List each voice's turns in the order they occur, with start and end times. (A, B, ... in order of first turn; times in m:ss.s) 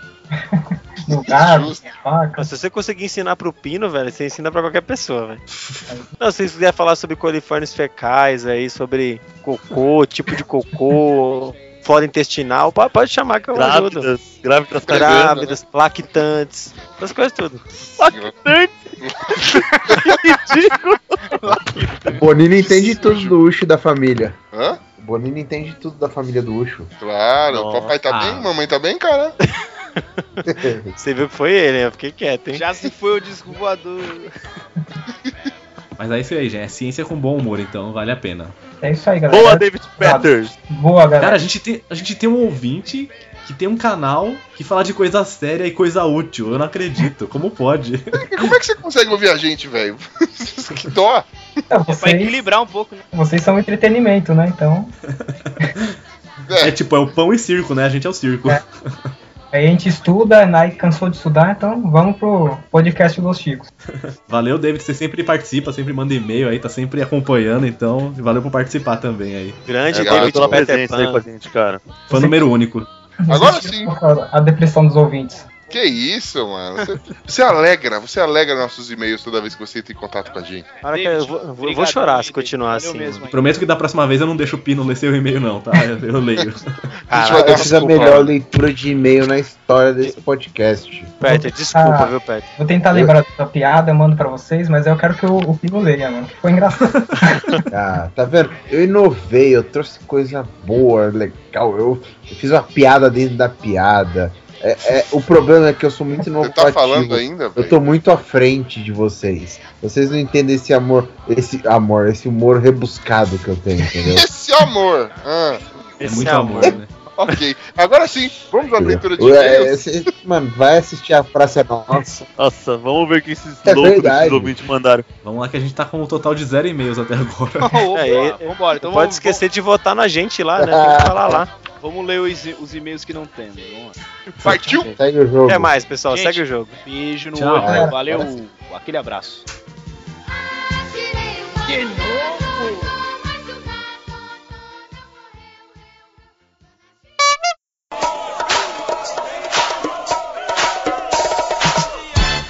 0:00.4-0:02.5 A
0:01.1-0:01.8 B
0:02.4-0:05.4 C
0:05.6-0:05.8 D
0:06.2-0:14.1 C
0:13.5-0:15.4 E
0:14.9-0:17.6 C
0:14.9-0:15.6 B
0:18.0-0:21.2 E
0:18.0-0:18.4 B
0:21.3-0:22.4 F
0:22.1-0:24.4 G
0:22.7-0:23.3 B
0:24.5-0:24.8 B
0:25.0-0:26.9 G
0:27.0-0:29.4 B
0:27.5-0:27.9 E
0:28.1-0:28.5 D
0:30.4-0:31.0 G
0:31.0-0:32.7 C
0:32.5-0:34.3 F
0:36.0-0:38.5 D
0:38.8-0:41.4 A
0:39.3-0:40.5 E
0:41.2-0:48.5 D
0:48.2-0:51.3 B
0:51.7-0:52.5 A
0:51.9-0:53.0 F
0:53.1-0:55.0 A
0:55.1-0:55.9 D
0:56.5-0:56.8 B
0:56.6-0:59.1 D
0:59.5-1:03.7 A
1:04.1-1:09.6 D
1:09.6-1:11.2 C
1:09.9-1:10.6 B
1:10.0-1:11.8 E
1:12.1-1:12.9 D
1:12.1-1:12.5 A
1:13.2-1:15.5 A
1:13.3-1:13.9 B
1:15.7-1:20.7 B
1:20.8-1:23.3 C
1:20.8-1:23.5 F
1:23.3-1:26.7 D
1:27.1-1:28.0 C
1:27.1-1:28.3 B
1:27.4-1:31.1 G
1:31.2-1:32.5 C
1:31.2-1:37.6 A
1:36.9-1:37.2 D
1:37.7-1:54.3 G
1:46.4-1:47.8 B
1:54.1-1:55.6 B
1:56.0-1:57.4 C
1:56.0-1:56.9 D
1:57.2-1:59.8 B
1:58.8-2:02.2 G
2:02.4-2:05.0 E
2:03.6-2:04.6 G
2:05.2-2:07.8 D
2:07.6-2:09.4 F
2:08.0-2:11.5 C
2:10.6-2:11.2 G
2:11.8-2:14.0 F
2:14.4-2:14.9 B
2:15.0-2:15.8 G
2:15.5-2:16.8 C
2:16.1-2:19.4 F
2:17.4-2:17.9 D
2:17.6-2:18.3 G
2:17.6-2:17.9 A
2:21.7-2:22.6 F